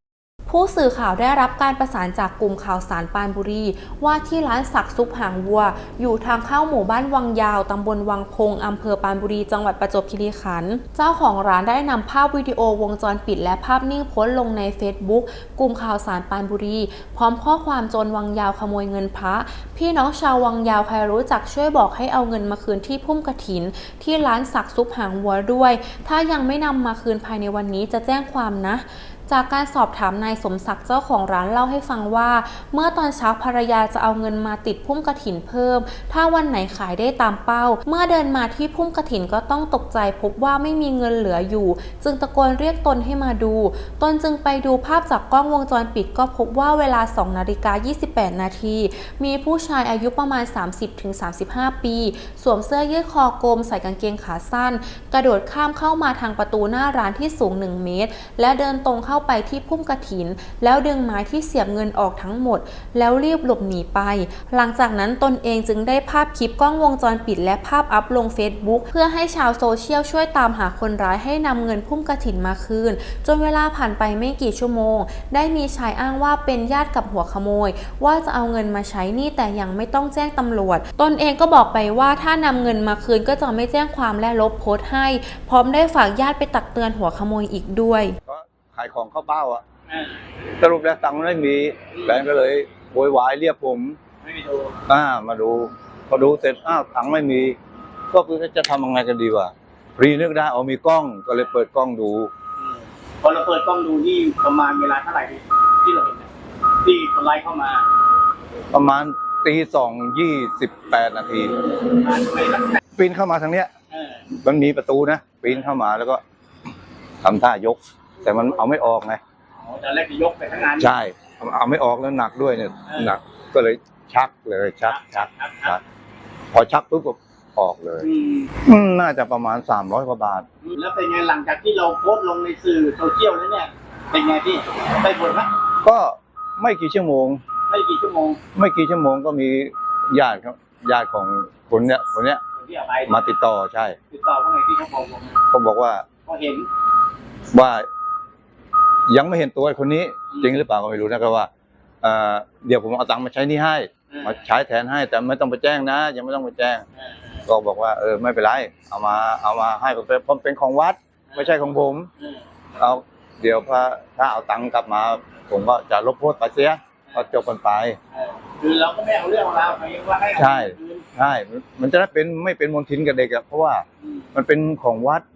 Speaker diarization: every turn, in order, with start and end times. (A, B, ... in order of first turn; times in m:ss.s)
0:00.5-1:28.2 A
1:28.3-1:29.6 B
1:29.9-1:30.2 C
1:30.6-1:34.0 B
1:31.9-1:32.2 C
1:34.2-1:34.8 C
1:34.9-1:37.6 B
1:38.1-1:42.3 B
1:42.6-1:46.3 C
1:46.8-1:47.8 C
1:48.7-1:51.5 B
1:51.7-1:52.8 C
1:53.0-1:53.7 B
1:53.9-1:54.3 C
1:54.3-1:56.2 B
1:57.2-1:59.2 B
1:59.6-2:00.9 C
2:00.8-2:05.8 B
2:02.9-2:03.2 C
2:04.9-2:05.8 C
2:06.5-2:08.1 B
2:08.0-2:08.5 C
2:08.6-2:10.4 B
2:10.6-2:15.5 C
2:15.8-2:17.4 B
2:17.7-2:18.4 C
2:18.5-2:22.4 B
2:22.6-2:23.3 C
2:23.1-2:24.0 B
2:24.1-2:25.4 C
2:25.5-2:26.1 B
2:26.2-2:26.7 C
2:27.5-2:27.9 B
2:29.1-2:31.5 B
2:30.3-2:30.6 C
2:32.0-2:36.8 B
2:34.1-2:34.4 C
2:37.0-2:37.4 C
2:37.4-2:42.1 B
2:42.8-2:48.0 B
2:48.1-2:51.0 C
2:50.4-2:55.2 B
2:54.0-2:54.3 C